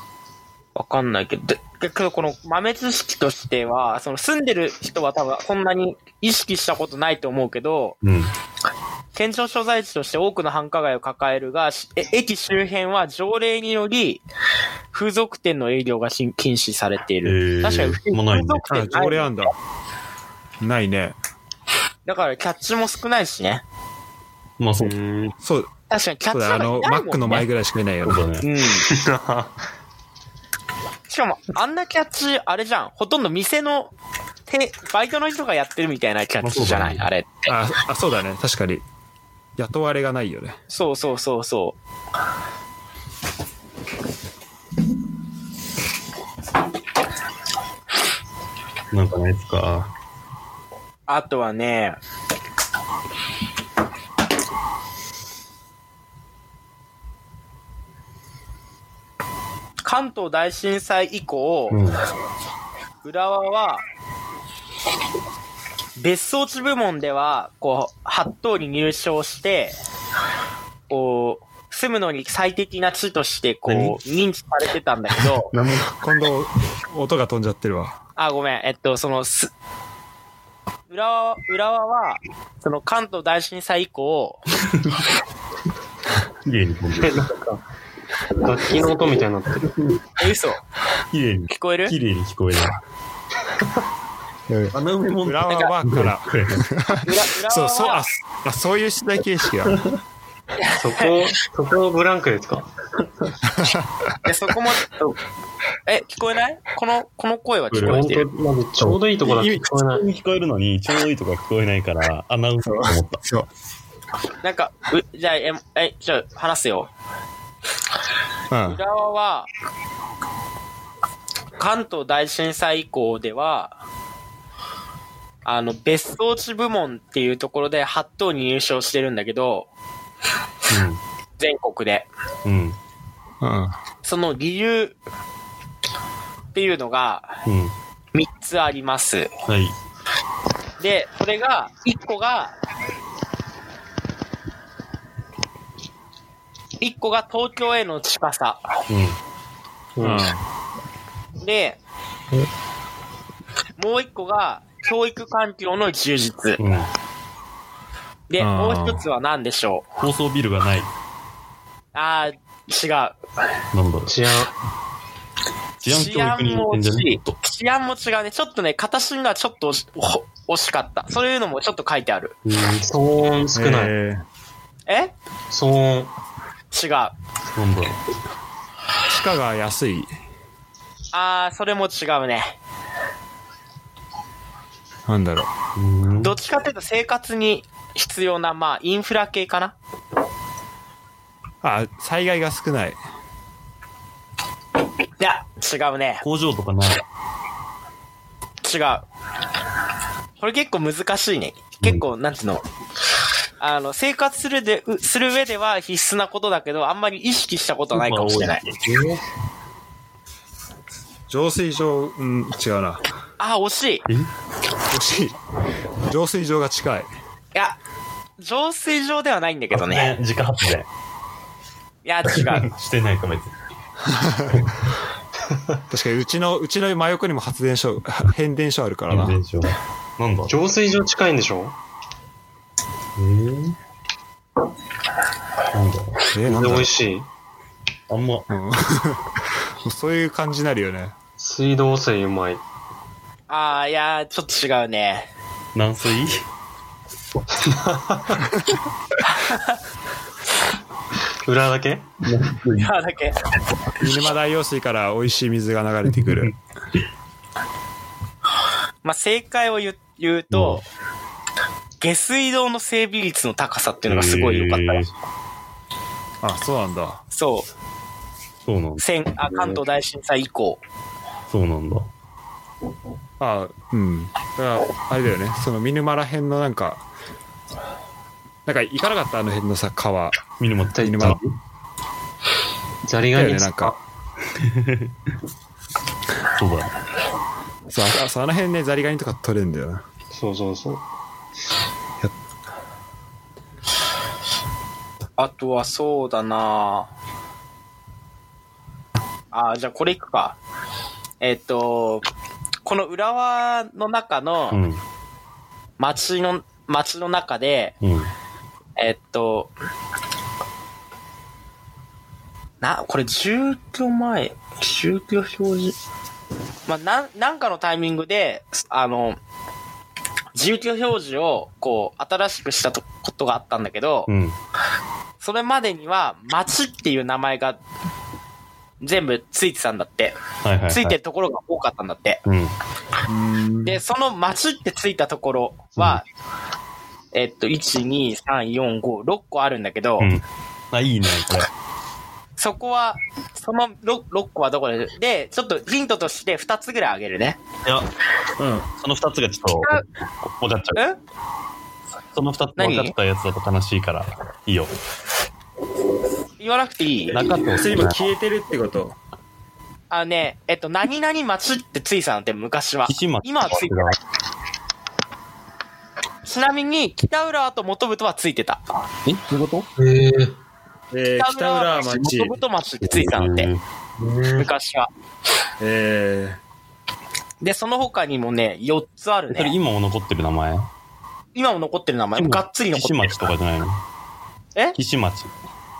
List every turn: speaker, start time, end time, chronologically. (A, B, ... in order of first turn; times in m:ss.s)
0:00.7-0:08.0 A
0:08.0-0:08.3 B
0:09.1-0:14.2 A
0:14.9-0:19.3 A
0:17.2-0:18.6 B
0:18.7-0:19.5 C
0:20.6-0:21.2 C
0:22.0-0:23.6 A
0:24.6-0:25.0 B
0:24.8-0:25.3 D
0:25.4-0:25.7 C
0:25.9-0:27.4 A
0:26.3-0:28.2 C
0:28.0-0:28.5 B
0:28.4-0:28.9 A
0:28.8-0:29.5 D
0:31.1-0:33.9 A
0:34.5-0:37.5 A
0:36.4-0:37.0 B
0:37.5-0:38.8 C
0:39.6-0:40.6 C
0:40.7-0:41.8 A
0:48.9-0:49.9 B
0:51.1-0:52.0 A
0:59.8-1:01.8 A
1:01.7-1:02.0 B
1:03.0-1:03.8 A
1:06.0-1:09.8 A
1:10.9-1:15.5 A
1:13.6-1:14.0 B
1:15.5-1:16.0 B
1:16.0-1:18.0 C
1:18.2-1:19.5 A
1:20.9-1:24.4 A
1:24.7-1:25.0 B
1:26.4-1:27.2 B
1:27.0-1:27.6 D
1:28.4-1:29.7 D
1:29.6-1:30.0 B
1:30.2-1:30.6 A
1:31.1-1:32.8 B
1:31.5-1:31.9 A
1:34.5-1:39.8 C
1:34.7-1:36.6 B
1:37.0-1:38.0 A
1:39.7-1:40.0 B
1:40.6-1:41.2 A
1:40.7-1:42.7 D
1:43.5-1:44.1 C
1:44.2-1:45.2 A
1:45.8-1:48.2 A
1:47.7-1:48.0 B
1:47.8-1:50.0 D
1:48.8-1:53.2 B
1:52.6-1:53.5 C
1:54.4-1:56.9 A
1:58.5-1:58.8 C
1:58.6-1:59.5 A
2:01.6-2:03.8 A
2:05.4-2:09.7 A
2:10.7-2:11.0 B
2:11.4-2:12.1 A
2:12.4-2:12.8 B
2:13.4-2:13.7 C
2:14.0-2:15.0 A
2:16.5-2:17.4 A
2:17.4-2:17.7 B
2:18.1-2:19.3 A
2:19.5-2:19.8 B
2:20.8-2:22.5 A
2:26.8-2:28.7 A
2:28.9-2:29.2 B
2:30.0-2:30.3 D
2:30.0-2:30.4 C
2:31.4-2:31.8 A
2:33.8-2:36.6 A
2:36.6-2:36.9 B
2:38.3-2:39.8 A
2:38.4-2:39.0 C
2:40.0-2:40.9 B
2:41.9-2:43.2 A
2:43.7-2:44.2 B
2:44.1-2:44.5 D
2:45.8-2:47.4 B
2:45.8-2:52.4 A
2:52.4-2:52.8 B
2:52.8-2:53.9 D
2:53.5-2:54.2 C
2:54.9-2:55.1 A
2:55.5-2:56.1 D
2:56.7-2:57.1 A
2:57.5-2:58.0 B
2:59.1-3:00.1 C
3:01.1-3:02.6 A
3:05.1-3:05.5 C
3:05.8-3:06.3 B
3:06.2-3:09.8 A
3:11.6-3:13.0 C
3:15.2-3:16.2 A
3:16.2-3:17.0 B
3:18.6-3:19.0 A
3:20.4-3:22.6 A
3:23.6-3:28.6 A
3:27.9-3:29.2 B
3:31.3-3:33.0 C
3:33.4-3:34.0 A
3:34.0-3:34.3 B
3:34.9-3:35.4 C
3:36.0-3:37.1 C
3:38.4-3:40.1 A
3:39.7-3:40.9 B
3:42.0-3:42.7 A
3:42.2-3:43.5 B
3:44.1-3:44.7 C
3:44.5-3:44.8 B
3:45.9-3:49.4 C
3:49.1-3:50.5 B
3:50.5-3:51.8 D
3:53.2-3:53.8 B
3:55.7-3:56.3 B
3:56.3-3:56.9 C
3:56.5-3:57.3 D
3:58.1-3:58.5 B
3:58.5-4:01.1 C
4:01.4-4:02.6 D
4:03.5-4:05.3 A
4:05.7-4:06.4 B
4:07.6-4:08.4 D
4:09.2-4:09.8 A
4:11.4-4:12.1 D
4:12.2-4:12.9 B
4:12.8-4:13.4 A
4:14.0-4:16.5 C
4:16.1-4:16.5 B
4:19.0-4:20.8 A
4:20.5-4:20.8 B
4:22.0-4:25.1 A
4:24.1-4:25.1 B
4:26.4-4:27.2 C
4:27.3-4:27.7 A
4:28.6-4:29.0 B
4:29.0-4:30.8 A
4:31.5-4:32.1 B
4:33.4-4:37.0 C
4:38.6-4:40.4 C
4:40.6-4:41.5 B
4:40.9-4:41.4 D
4:41.0-4:41.4 C
4:43.0-4:44.0 D
4:43.3-4:44.0 C
4:44.5-4:45.1 B
4:46.5-4:46.9 B
4:47.9-4:50.0 C
4:50.3-4:51.0 D
4:55.4-4:57.1 A
4:59.5-5:00.6 A
5:01.4-5:02.2 A
5:02.8-5:04.8 A
5:04.7-5:05.0 B
5:06.0-5:07.9 A
5:08.0-5:08.3 B
5:09.0-5:09.7 A
5:12.8-5:16.0 A
5:16.9-5:19.4 A
5:20.5-5:24.3 A
5:24.3-5:24.6 B
5:25.4-5:27.8 A
5:29.0-5:30.4 A
5:30.6-5:31.2 B
5:30.9-5:32.4 A
5:32.4-5:32.8 B
5:33.3-5:34.0 C
5:33.8-5:36.2 A
5:37.3-5:40.3 A
5:40.2-5:41.7 B
5:42.6-5:47.6 A
5:47.8-5:48.1 B
5:48.6-5:48.9 C
5:48.9-5:51.0 B
5:52.3-5:54.9 B
5:52.8-5:53.1 A
5:56.6-5:57.5 A
5:57.3-5:58.3 B
5:57.7-5:59.2 C
6:00.1-6:04.2 A
6:03.0-6:04.2 B
6:06.4-6:08.8 A
6:09.2-6:09.9 B
6:10.0-6:10.5 D
6:11.1-6:12.5 C
6:11.4-6:13.7 A
6:13.0-6:13.8 B
6:14.2-6:14.7 D
6:14.5-6:15.1 A
6:15.8-6:16.6 C
6:17.6-6:19.7 A
6:19.5-6:20.9 B
6:21.5-6:23.4 A
6:22.4-6:24.0 B
6:24.9-6:25.5 B